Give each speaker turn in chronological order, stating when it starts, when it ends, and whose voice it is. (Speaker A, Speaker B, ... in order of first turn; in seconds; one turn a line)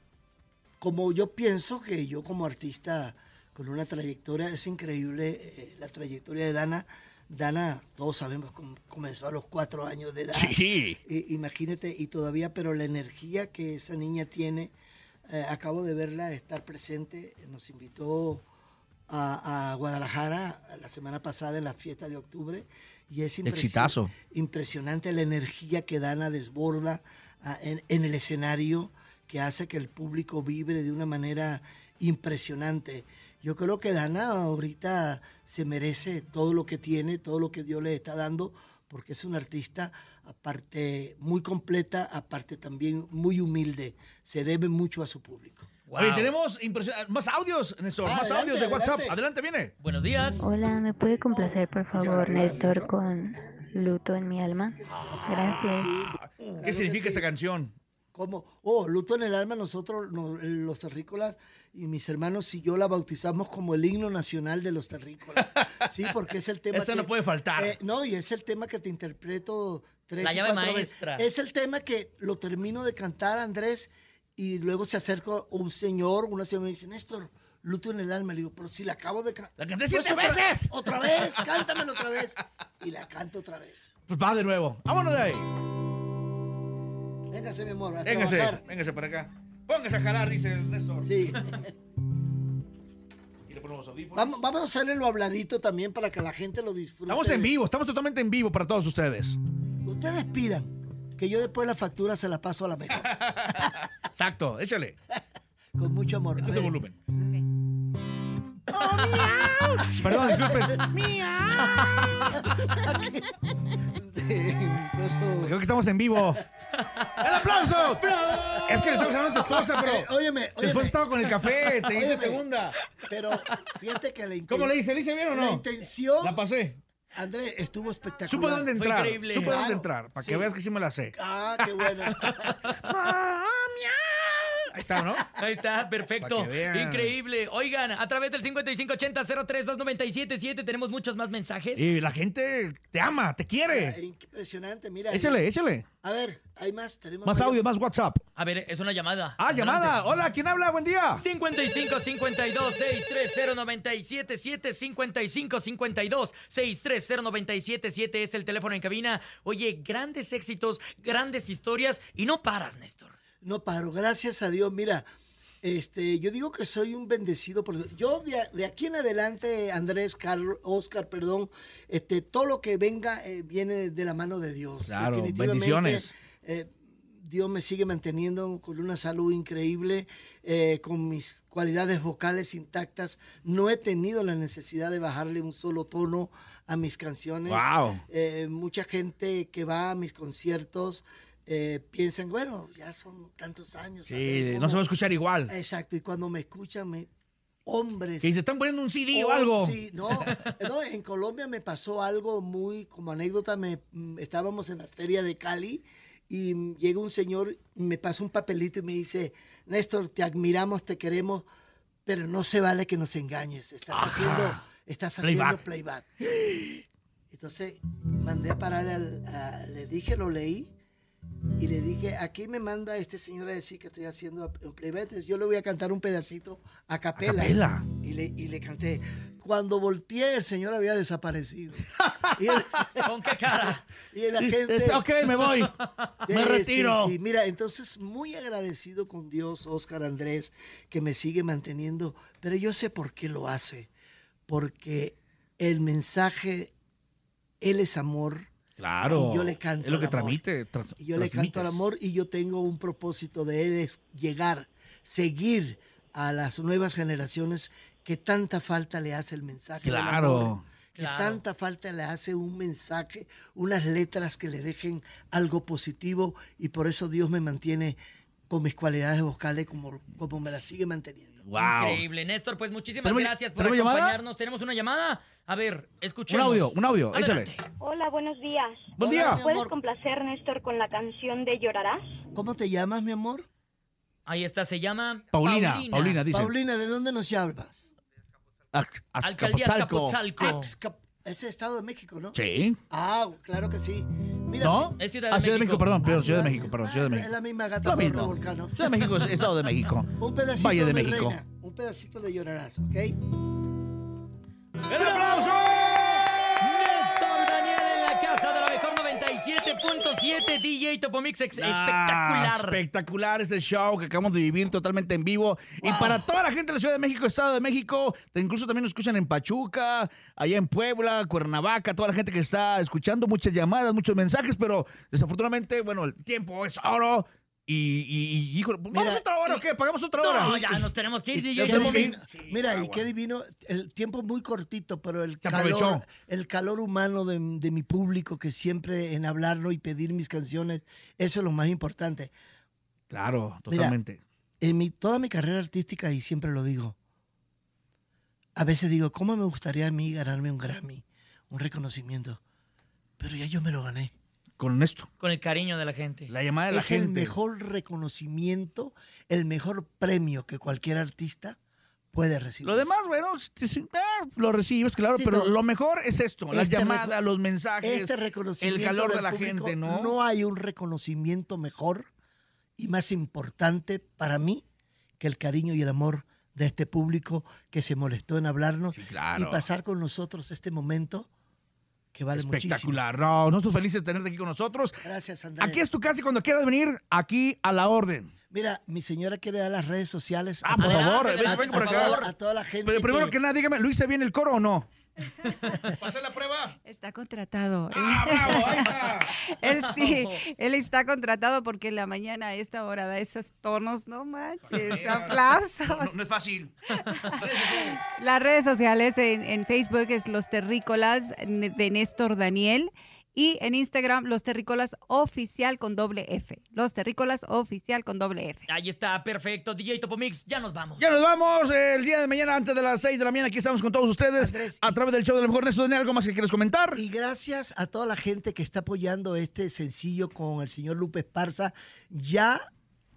Speaker A: 0.8-14.7
Speaker B: 10.3-11.0
Speaker A: 15.3-18.4
Speaker A: 19.1-45.7
Speaker B: 23.4-24.1
Speaker C: 45.9-46.3
Speaker B: 45.9-49.7
Speaker A: 48.0-49.2
Speaker C: 49.8-50.4
Speaker D: 50.4-56.0
Speaker B: 52.0-52.9
Speaker A: 55.0-57.2
Speaker B: 56.1-57.7
Speaker A: 58.1-83.9
Speaker B: 65.4-65.9
Speaker B: 66.7-67.8
Speaker C: 70.2-71.2
Speaker B: 79.6-81.6
Speaker B: 84.1-85.4
Speaker A: 87.3-88.6
Speaker B: 88.0-91.1
Speaker A: 91.0-91.7
Speaker B: 93.5-94.3
Speaker A: 94.2-97.5
Speaker B: 97.1-99.4
Speaker A: 99.8-103.7
Speaker B: 103.0-105.0
Speaker A: 105.8-106.8
Speaker B: 106.4-107.0
Speaker B: 108.7-112.5
Speaker A: 108.7-110.9
Speaker A: 111.5-115.5
Speaker B: 115.4-116.4
Speaker B: 117.2-122.8
Speaker A: 117.4-122.5
Speaker A: 123.1-124.8
Speaker B: 124.5-125.6
Speaker A: 125.3-126.4
Speaker B: 126.2-126.8
Speaker A: 127.1-128.7
Speaker B: 128.2-131.1
Speaker C: 128.7-129.6
Speaker A: 129.3-130.5
Speaker A: 131.1-132.4
Speaker B: 131.8-135.3
Speaker C: 135.3-141.8
Speaker B: 136.2-137.1
Speaker B: 141.8-144.0
Speaker A: 143.7-145.4
Speaker B: 145.1-145.9
Speaker A: 146.0-147.6
Speaker B: 147.2-148.2
Speaker C: 148.3-150.0
Speaker B: 149.4-151.2
Speaker C: 151.1-163.2
Speaker A: 163.4-165.1
Speaker A: 165.6-194.8
Speaker B: 174.8-176.1
Speaker B: 187.5-188.0
Speaker B: 194.1-195.5
Speaker A: 195.5-197.1
Speaker A: 197.7-198.4
Speaker B: 198.2-199.8
Speaker A: 199.1-211.4
Speaker A: 212.1-216.0
Speaker B: 213.9-214.6
Speaker B: 215.2-215.6
Speaker B: 216.2-216.8
Speaker A: 217.3-220.7
Speaker A: 221.6-235.1
Speaker B: 227.2-227.9
Speaker B: 232.0-232.7
Speaker C: 233.0-233.8
Speaker B: 234.4-235.7
Speaker C: 235.6-235.8
Speaker A: 236.2-243.9
Speaker B: 236.3-237.1
Speaker A: 244.5-246.7
Speaker A: 247.6-248.5
Speaker B: 248.8-251.8
Speaker A: 249.0-250.4
Speaker A: 251.0-268.0
Speaker B: 259.8-260.6
Speaker C: 260.9-261.4
Speaker A: 268.5-271.4
Speaker B: 271.4-272.0
Speaker C: 271.5-277.6
Speaker B: 273.0-274.2
Speaker B: 276.3-277.5
Speaker E: 277.8-282.0
Speaker B: 279.0-279.4
Speaker A: 279.0-279.7
Speaker A: 282.3-283.4
Speaker C: 284.3-286.2
Speaker B: 285.3-286.5
Speaker A: 286.3-287.9
Speaker B: 288.7-290.2
Speaker C: 289.2-290.7
Speaker A: 290.3-292.4
Speaker B: 292.3-292.8
Speaker A: 292.9-294.9
Speaker B: 294.6-301.4
Speaker C: 294.9-295.9
Speaker A: 296.0-298.9
Speaker A: 300.2-303.2
Speaker B: 304.9-306.3
Speaker C: 306.6-312.8
Speaker B: 311.6-330.8
Speaker A: 315.8-316.3
Speaker A: 328.9-329.6
Speaker C: 330.2-332.1
Speaker A: 330.4-330.9
Speaker A: 331.4-342.3
Speaker B: 331.4-333.1
Speaker B: 335.4-336.1
Speaker B: 343.1-344.2
Speaker A: 343.7-343.9
Speaker A: 344.6-346.9
Speaker A: 348.6-352.4
Speaker A: 353.2-354.1
Speaker B: 354.6-355.1
Speaker C: 355.2-356.3
Speaker B: 356.3-357.4
Speaker A: 356.7-361.6
Speaker A: 362.1-362.9
Speaker B: 362.6-370.1
Speaker A: 365.1-365.5
Speaker A: 366.5-367.2
Speaker A: 367.8-372.1
Speaker A: 372.8-374.6
Speaker A: 375.2-381.3
Speaker B: 378.9-379.6
Speaker A: 382.1-383.0
Speaker B: 382.3-385.0
Speaker A: 385.0-385.8
Speaker B: 385.6-388.3
Speaker A: 388.5-393.4
Speaker B: 390.6-392.3
Speaker C: 390.8-392.3
Speaker B: 392.8-394.9
Speaker B: 395.9-396.8
Speaker F: 396.8-406.1
Speaker B: 398.0-399.3
Speaker C: 399.9-400.4
Speaker B: 404.6-406.7
Speaker F: 407.0-418.6
Speaker B: 407.4-408.0
Speaker C: 418.7-421.0
Speaker B: 421.0-427.0
Speaker A: 424.4-425.0
Speaker A: 426.9-432.6